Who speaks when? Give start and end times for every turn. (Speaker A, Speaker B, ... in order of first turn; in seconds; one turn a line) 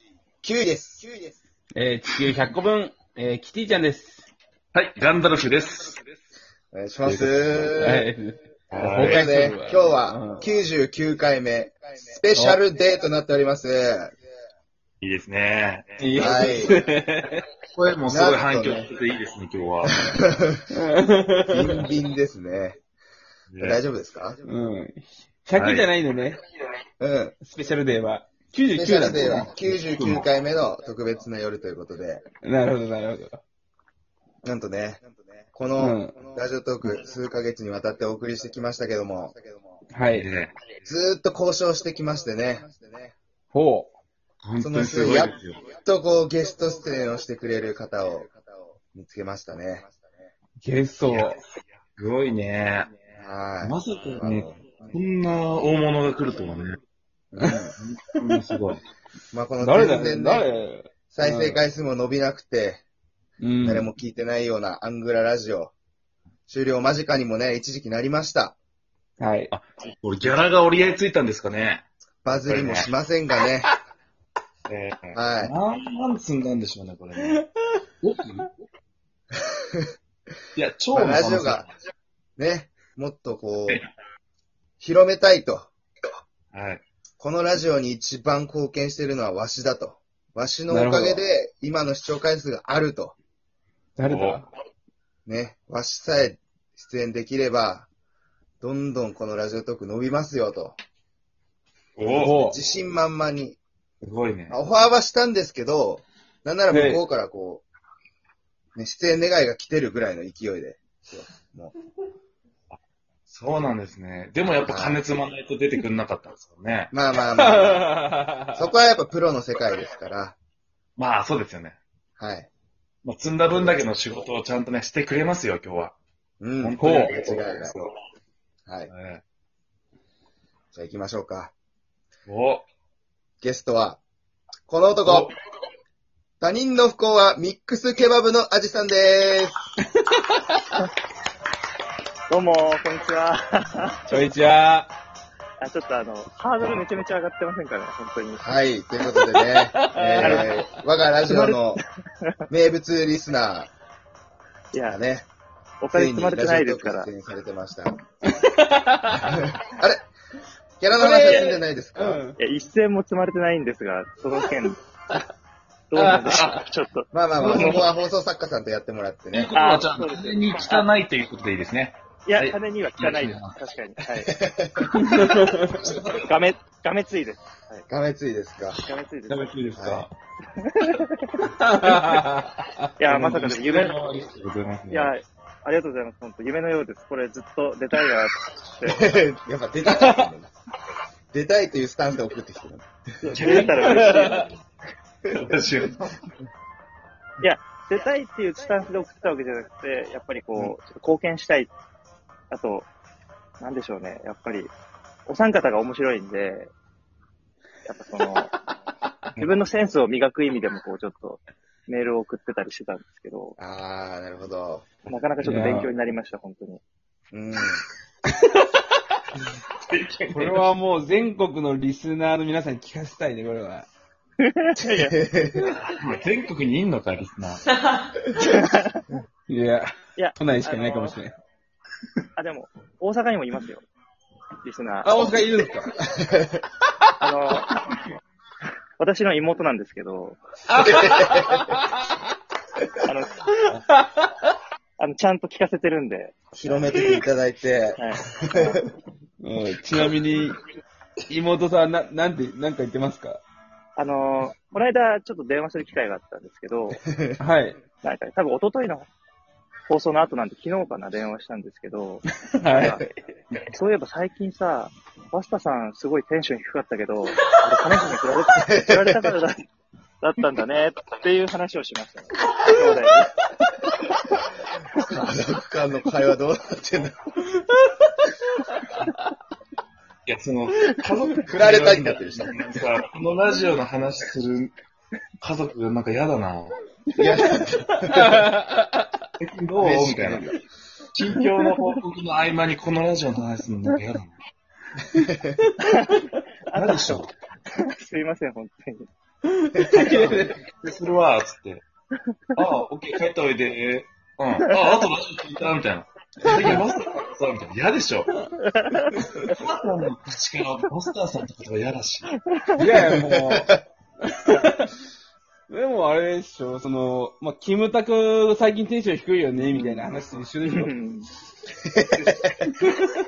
Speaker A: 0.4-1.3
Speaker B: 1.8-4.3
Speaker C: 4.7-6.0
Speaker A: 6.7-8.1
Speaker C: 7.0-7.7
Speaker B: 7.8-10.5
Speaker C: 8.7-9.3
Speaker A: 9.0-14.2
Speaker C: 15.0-16.4
Speaker B: 16.0-17.4
Speaker A: 16.2-16.8
Speaker C: 17.7-20.2
Speaker A: 18.1-18.9
Speaker A: 19.9-20.7
Speaker B: 20.7-21.8
Speaker A: 21.5-22.8
Speaker C: 23.5-23.8
Speaker A: 23.6-24.4
Speaker B: 24.4-26.4
Speaker C: 25.6-25.9
Speaker A: 27.0-27.4
Speaker B: 27.4-29.5
Speaker A: 28.7-32.2
Speaker C: 29.6-30.3
Speaker B: 32.4-33.4
Speaker A: 34.4-39.8
Speaker B: 35.8-36.1
Speaker B: 39.9-40.3
Speaker C: 40.1-40.5
Speaker A: 40.8-43.2
Speaker B: 43.5-43.9
Speaker C: 44.4-45.6
Speaker A: 44.6-50.0
Speaker B: 50.6-51.4
Speaker C: 51.1-51.4
Speaker C: 52.0-53.0
Speaker A: 53.1-54.9
Speaker C: 53.6-56.8
Speaker A: 57.3-57.7
Speaker C: 57.8-58.8
Speaker A: 59.3-60.5
Speaker B: 59.6-61.6
Speaker A: 61.1-62.8
Speaker B: 63.4-63.9
Speaker A: 63.6-65.7
Speaker A: 66.5-68.6
Speaker B: 69.2-69.5
Speaker C: 69.5-72.9
Speaker A: 72.2-73.7
Speaker C: 74.7-77.5
Speaker A: 75.2-75.5
Speaker C: 78.0-78.5
Speaker C: 80.5-81.7
Speaker A: 80.9-81.7
Speaker A: 82.4-83.8
Speaker A: 84.8-85.7
Speaker C: 86.5-86.8
Speaker A: 87.2-93.2
Speaker B: 90.7-91.2
Speaker B: 94.0-94.5
Speaker C: 94.0-94.4
Speaker A: 95.3-97.9
Speaker A: 98.6-100.8
Speaker C: 102.0-102.4
Speaker B: 102.1-102.6
Speaker A: 102.3-103.6
Speaker C: 104.0-104.6
Speaker A: 104.5-107.7
Speaker B: 106.7-107.0
Speaker A: 108.8-111.7
Speaker C: 112.7-116.9
Speaker A: 114.7-115.0
Speaker A: 116.9-118.0
Speaker B: 117.4-118.6
Speaker A: 118.5-120.4
Speaker C: 121.0-121.8
Speaker A: 122.2-122.5
Speaker C: 123.0-126.0
Speaker A: 123.5-123.8
Speaker A: 126.4-127.8
Speaker C: 126.6-127.9
Speaker B: 126.8-127.2
Speaker C: 128.9-129.2
Speaker A: 130.7-131.5
Speaker C: 132.3-132.7
Speaker A: 133.4-134.0
Speaker A: 134.7-135.3
Speaker A: 136.4-139.6
Speaker B: 140.2-140.8
Speaker D: 142.3-144.3
Speaker B: 144.1-144.9
Speaker D: 145.6-148.5
Speaker A: 148.4-151.8
Speaker B: 149.4-150.5
Speaker D: 150.2-150.5
Speaker D: 151.3-152.3
Speaker A: 152.5-153.7
Speaker D: 154.7-155.0
Speaker A: 154.9-155.3
Speaker D: 155.8-157.1
Speaker A: 155.9-157.9
Speaker B: 158.3-159.5
Speaker A: 159.2-160.0
Speaker A: 160.8-162.2
Speaker B: 160.9-162.4
Speaker D: 162.4-164.8
Speaker D: 165.9-167.9
Speaker B: 165.9-166.6
Speaker C: 166.3-166.6
Speaker A: 167.1-169.5
Speaker C: 167.4-167.9
Speaker C: 169.3-173.6
Speaker D: 169.6-170.9
Speaker D: 172.2-174.4
Speaker A: 174.2-175.0
Speaker B: 174.9-175.8
Speaker C: 175.8-176.3
Speaker D: 176.1-177.9
Speaker A: 177.9-178.8
Speaker D: 178.8-179.7
Speaker C: 179.3-180.1
Speaker A: 179.8-180.1
Speaker D: 180.6-182.0
Speaker B: 181.5-182.9
Speaker D: 183.0-184.2
Speaker C: 183.1-185.1
Speaker D: 184.9-189.2
Speaker A: 188.9-190.5
Speaker B: 189.9-190.3
Speaker A: 191.3-192.9
Speaker D: 193.2-194.5
Speaker C: 193.3-194.1
Speaker B: 193.5-194.5
Speaker C: 195.3-196.1
Speaker D: 197.4-201.7
Speaker D: 202.5-202.9
Speaker D: 203.6-204.7
Speaker D: 205.3-206.7
Speaker D: 207.9-208.5
Speaker D: 209.4-213.6
Speaker A: 213.6-214.9
Speaker D: 215.1-216.8
Speaker B: 215.4-215.9
Speaker A: 217.3-217.8
Speaker C: 219.8-220.7
Speaker B: 220.3-223.9
Speaker D: 224.4-225.3
Speaker A: 224.8-225.7
Speaker C: 225.8-227.6
Speaker D: 228.4-229.1
Speaker B: 229.5-231.4
Speaker D: 230.2-231.2
Speaker D: 232.4-233.9
Speaker D: 234.6-235.4
Speaker B: 235.0-235.9
Speaker A: 236.0-236.6
Speaker D: 237.2-237.8
Speaker D: 239.0-240.4
Speaker B: 240.7-241.9
Speaker A: 240.8-241.7
Speaker D: 243.0-243.4
Speaker B: 243.7-244.3
Speaker D: 245.0-247.1
Speaker A: 246.5-248.6
Speaker D: 248.0-248.9
Speaker B: 249.4-250.6
Speaker B: 251.3-253.4
Speaker D: 254.0-257.0
Speaker A: 257.1-257.4
Speaker B: 257.4-257.8
Speaker D: 258.0-259.1
Speaker D: 259.9-263.1
Speaker B: 262.5-263.0
Speaker D: 263.7-269.7
Speaker D: 270.2-273.4
Speaker D: 275.0-275.3
Speaker A: 275.0-277.3
Speaker C: 280.3-284.7
Speaker A: 281.5-282.6
Speaker C: 285.4-286.8
Speaker A: 287.2-288.5
Speaker B: 287.6-289.1
Speaker C: 289.4-290.5
Speaker A: 289.8-290.5
Speaker B: 290.0-290.3
Speaker C: 291.1-294.4
Speaker A: 295.2-295.6
Speaker D: 295.8-299.1
Speaker C: 296.7-297.3
Speaker B: 299.5-300.6
Speaker C: 300.5-301.8
Speaker C: 302.6-308.3
Speaker D: 304.7-305.0
Speaker D: 308.6-309.5
Speaker C: 309.5-312.3
Speaker D: 312.5-312.9
Speaker B: 312.8-314.9
Speaker A: 313.2-313.8
Speaker B: 315.7-320.9
Speaker D: 319.7-320.1
Speaker D: 320.7-321.3
Speaker A: 321.8-322.6